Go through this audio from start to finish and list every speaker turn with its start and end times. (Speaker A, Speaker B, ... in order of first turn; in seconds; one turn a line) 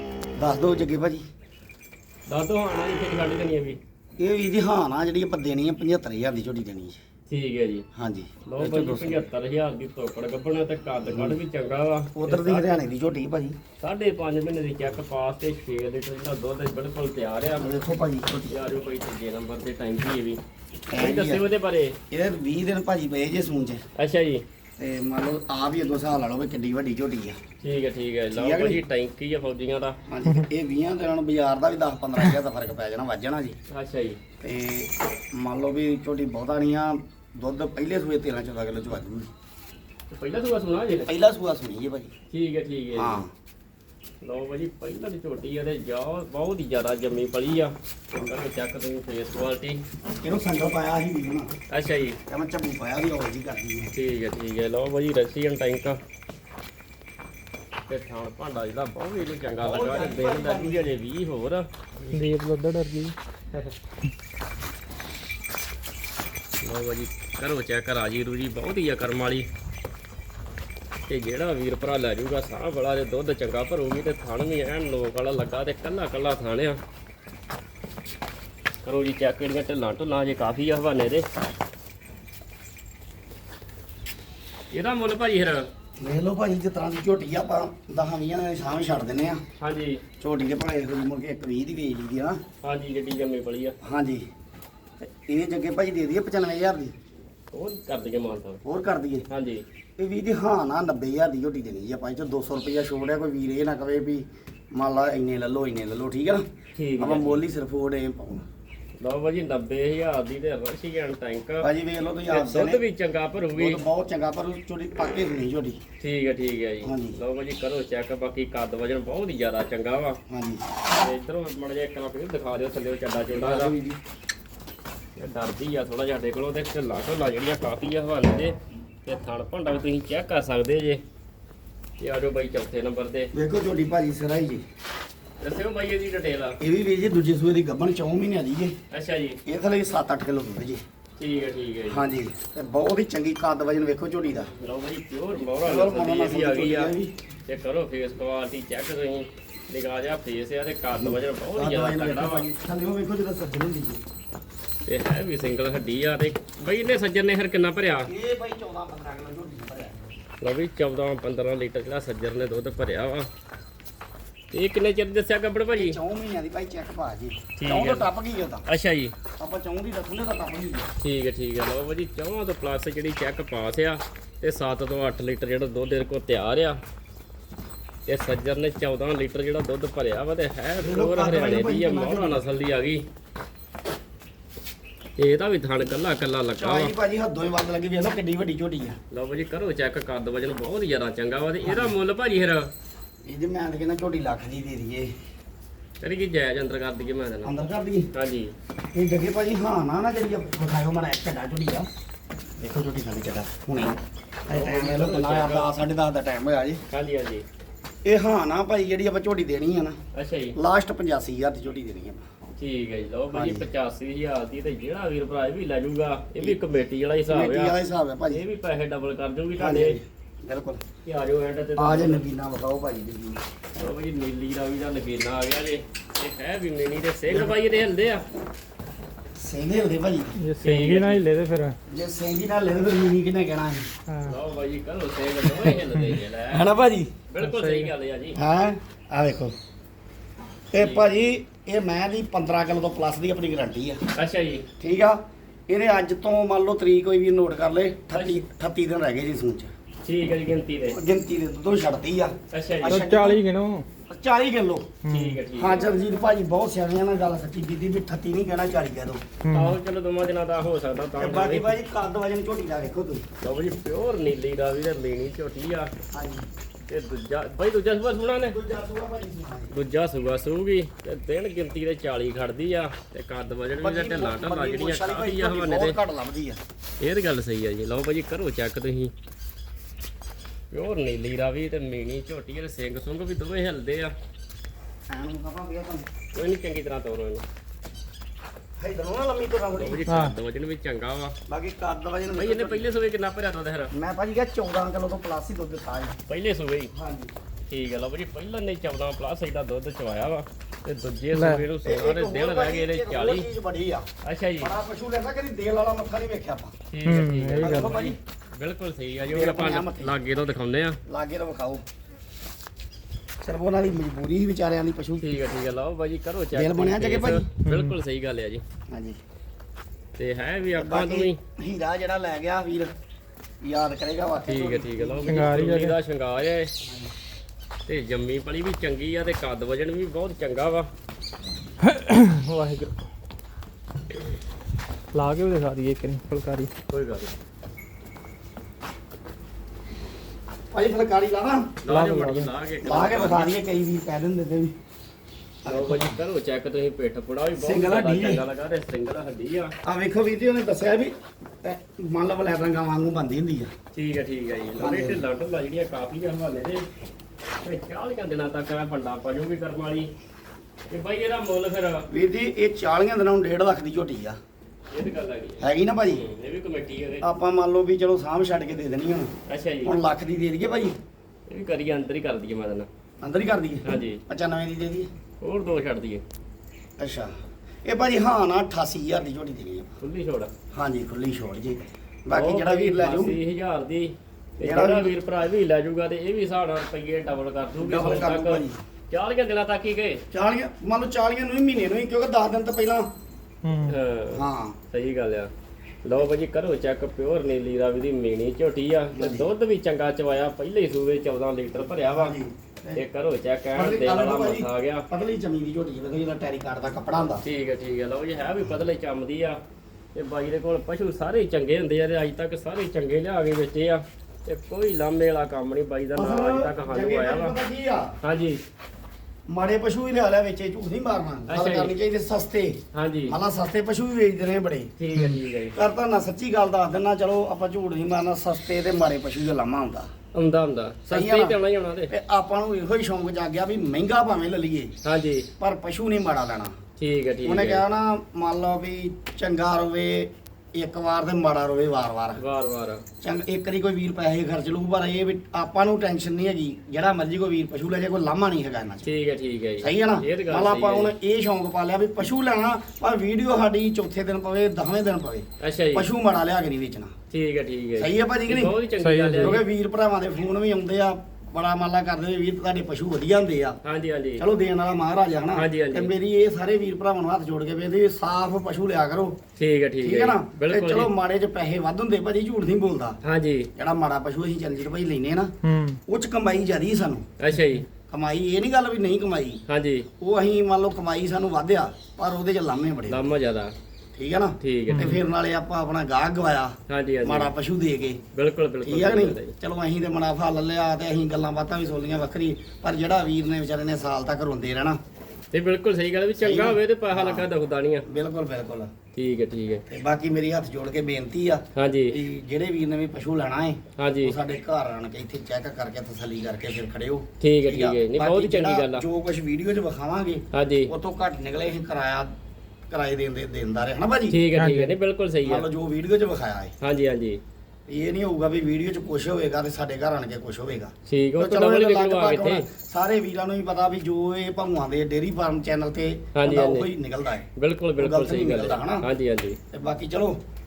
Speaker A: 0.3-1.2
Speaker B: 2.3-3.8
Speaker A: 4.2-7.0
Speaker B: 7.3-7.8
Speaker A: 7.9-9.3
Speaker B: 8.4-12.7
Speaker A: 11.0-11.4
Speaker A: 12.1-13.6
Speaker B: 13.8-17.7
Speaker A: 17.6-18.5
Speaker B: 18.5-20.4
Speaker A: 20.9-21.4
Speaker B: 21.0-22.0
Speaker A: 22.1-23.8
Speaker B: 24.0-24.4
Speaker A: 24.8-27.4
Speaker B: 27.6-30.0
Speaker A: 28.3-28.8
Speaker A: 30.1-33.6
Speaker B: 33.7-34.2
Speaker A: 34.4-39.3
Speaker B: 40.1-41.1
Speaker A: 41.0-42.1
Speaker B: 42.3-43.2
Speaker A: 42.9-43.3
Speaker B: 44.2-49.8
Speaker A: 50.2-51.5
Speaker B: 51.7-52.2
Speaker A: 52.3-53.9
Speaker B: 53.9-56.0
Speaker B: 57.9-61.7
Speaker A: 59.6-60.9
Speaker C: 62.1-63.1
Speaker B: 66.6-69.5
Speaker B: 71.1-76.8
Speaker B: 78.8-81.3
Speaker B: 84.7-85.7
Speaker A: 86.0-89.4
Speaker B: 89.6-90.0
Speaker A: 90.2-92.4
Speaker B: 92.6-93.8
Speaker A: 93.8-94.2
Speaker A: 95.0-96.9
Speaker B: 97.5-98.6
Speaker A: 98.6-99.2
Speaker B: 99.3-99.6
Speaker A: 100.0-106.4
Speaker B: 106.8-107.4
Speaker A: 107.0-108.4
Speaker B: 109.0-111.7
Speaker A: 111.6-112.8
Speaker B: 112.3-113.8
Speaker A: 113.5-115.8
Speaker B: 116.0-120.2
Speaker A: 116.8-117.2
Speaker A: 120.3-120.7
Speaker B: 120.9-123.7
Speaker A: 123.3-124.0
Speaker B: 125.2-131.0
Speaker B: 132.0-133.3
Speaker A: 133.3-134.6
Speaker B: 135.4-136.6
Speaker A: 136.6-138.8
Speaker B: 138.9-139.4
Speaker A: 139.4-140.8
Speaker B: 141.2-142.0
Speaker A: 141.9-144.5
Speaker B: 144.4-146.9
Speaker A: 145.6-147.1
Speaker B: 147.5-152.5
Speaker A: 150.9-154.0
Speaker B: 154.8-158.1
Speaker A: 158.1-160.2
Speaker B: 160.4-163.3
Speaker B: 164.5-166.0
Speaker A: 165.7-168.6
Speaker B: 167.6-168.1
Speaker B: 168.7-169.1
Speaker A: 169.4-170.9
Speaker B: 171.0-176.8
Speaker B: 178.1-183.0
Speaker A: 180.8-182.4
Speaker B: 185.2-186.9
Speaker A: 186.6-189.0
Speaker B: 189.1-192.7
Speaker A: 191.6-191.9
Speaker A: 193.2-195.1
Speaker B: 196.0-197.5
Speaker A: 197.4-198.1
Speaker B: 198.1-198.5
Speaker A: 198.9-201.9
Speaker A: 202.6-206.8
Speaker B: 204.5-205.7
Speaker B: 206.9-207.4
Speaker A: 208.0-210.0
Speaker B: 210.1-210.6
Speaker A: 210.6-212.2
Speaker B: 212.6-217.8
Speaker A: 213.3-213.7
Speaker A: 217.3-218.4
Speaker B: 218.3-220.0
Speaker A: 219.6-220.8
Speaker B: 221.0-222.2
Speaker A: 221.8-223.4
Speaker B: 223.8-228.2
Speaker A: 227.3-227.6
Speaker A: 229.3-230.4
Speaker C: 230.4-231.8
Speaker B: 230.6-231.3
Speaker A: 231.9-233.9
Speaker C: 234.1-234.3
Speaker B: 234.2-236.7
Speaker A: 236.5-237.1
Speaker B: 237.3-238.4
Speaker C: 237.4-237.9
Speaker A: 238.3-239.5
Speaker A: 240.7-244.0
Speaker B: 240.8-241.1
Speaker B: 244.1-244.7
Speaker A: 244.8-249.7
Speaker B: 248.1-248.4
Speaker B: 250.0-251.0
Speaker A: 250.9-253.4
Speaker B: 252.5-253.1
Speaker C: 252.8-253.9
Speaker A: 254.1-255.0
Speaker C: 255.0-255.4
Speaker B: 255.1-255.9
Speaker A: 255.6-259.2
Speaker C: 259.4-259.8
Speaker B: 259.5-261.7
Speaker A: 261.2-263.2
Speaker B: 263.4-265.9
Speaker A: 266.1-266.5
Speaker B: 266.9-268.6
Speaker A: 268.5-269.7
Speaker B: 269.7-276.0
Speaker A: 273.8-276.6
Speaker B: 277.0-279.1
Speaker B: 280.7-284.1
Speaker A: 285.1-286.0
Speaker B: 286.3-287.4
Speaker A: 288.8-290.1
Speaker B: 289.8-291.3
Speaker C: 290.1-290.3
Speaker A: 291.5-292.9
Speaker B: 292.3-293.9
Speaker A: 293.9-296.2
Speaker B: 296.3-296.9
Speaker A: 296.9-297.3
Speaker B: 297.7-303.5
Speaker C: 301.3-301.6
Speaker A: 301.8-304.1
Speaker B: 304.2-304.7
Speaker A: 304.6-306.8
Speaker B: 306.9-311.0
Speaker C: 307.0-308.0
Speaker A: 307.6-308.2
Speaker A: 309.3-310.1
Speaker A: 311.1-311.8
Speaker A: 313.4-315.2
Speaker B: 315.2-318.6
Speaker A: 316.5-317.5
Speaker C: 317.6-317.9
Speaker A: 318.9-319.2
Speaker B: 320.2-321.4
Speaker A: 320.7-322.9
Speaker A: 323.6-325.5
Speaker B: 324.4-326.7
Speaker C: 325.3-326.0
Speaker A: 326.8-327.1
Speaker B: 327.9-330.9
Speaker C: 331.8-332.9
Speaker C: 335.1-336.7
Speaker B: 336.9-337.3
Speaker A: 340.7-341.8
Speaker B: 341.8-343.6
Speaker C: 341.9-342.5
Speaker A: 342.8-344.7
Speaker A: 345.6-346.2
Speaker B: 345.6-349.7
Speaker A: 347.6-348.4
Speaker A: 349.8-353.7
Speaker B: 353.9-356.9
Speaker A: 354.8-355.2
Speaker B: 357.6-360.1
Speaker B: 360.9-362.1
Speaker A: 362.1-364.4
Speaker B: 364.9-367.2
Speaker A: 365.6-366.2
Speaker A: 367.2-369.3
Speaker B: 369.5-369.9
Speaker A: 369.8-370.9
Speaker B: 371.5-372.9
Speaker A: 373.2-375.1
Speaker B: 373.8-374.2
Speaker B: 375.4-376.2
Speaker A: 377.0-377.3
Speaker A: 377.8-380.0
Speaker B: 380.0-380.5
Speaker A: 380.7-383.4
Speaker B: 382.3-390.2
Speaker A: 384.6-385.1
Speaker A: 387.8-388.8
Speaker A: 390.3-393.1
Speaker C: 393.6-393.9
Speaker B: 393.9-395.5
Speaker A: 394.3-394.8
Speaker B: 396.0-402.4
Speaker A: 399.1-399.5
Speaker A: 402.1-403.0
Speaker B: 402.9-405.1
Speaker A: 403.7-407.4
Speaker B: 407.4-409.6
Speaker B: 410.1-417.6
Speaker A: 416.1-418.1
Speaker B: 418.2-418.6
Speaker A: 419.5-422.8
Speaker B: 421.5-421.9
Speaker B: 422.9-423.4
Speaker A: 423.3-424.9
Speaker B: 425.0-425.8
Speaker A: 425.7-430.1
Speaker B: 430.3-432.1
Speaker A: 431.1-431.6
Speaker A: 432.1-434.9
Speaker B: 435.0-435.5
Speaker A: 435.6-436.7
Speaker B: 437.0-437.8
Speaker A: 437.4-442.4
Speaker B: 442.4-443.0
Speaker A: 443.2-449.1
Speaker B: 449.0-451.1
Speaker A: 449.8-457.1
Speaker B: 455.6-456.1
Speaker B: 457.3-459.6
Speaker A: 458.0-458.8
Speaker C: 459.0-459.6
Speaker A: 459.4-463.8
Speaker B: 463.8-464.4
Speaker A: 464.4-469.4
Speaker B: 465.5-466.1
Speaker B: 469.6-471.1
Speaker A: 470.0-473.2
Speaker B: 473.2-473.7
Speaker A: 473.8-475.5
Speaker C: 475.6-476.0
Speaker A: 476.1-477.2
Speaker B: 477.4-477.9
Speaker A: 478.1-479.6
Speaker B: 479.7-480.1
Speaker A: 480.2-483.2
Speaker B: 483.1-483.7
Speaker A: 484.1-488.2
Speaker B: 484.6-485.2
Speaker C: 484.9-485.2
Speaker B: 486.9-487.5
Speaker B: 488.3-489.5
Speaker A: 488.8-495.0
Speaker B: 495.5-498.0
Speaker A: 496.4-497.5
Speaker A: 498.1-498.9
Speaker B: 499.1-499.8
Speaker A: 499.9-512.3
Speaker B: 501.7-502.1
Speaker B: 504.0-504.4
Speaker B: 507.4-509.0
Speaker B: 510.5-510.9
Speaker A: 512.9-514.4
Speaker B: 514.3-515.6
Speaker C: 514.5-514.9
Speaker A: 515.4-516.7
Speaker B: 516.8-517.4
Speaker A: 517.9-527.5
Speaker B: 521.1-522.7
Speaker B: 526.3-526.9
Speaker B: 527.6-529.6
Speaker A: 528.0-529.1
Speaker A: 529.7-530.4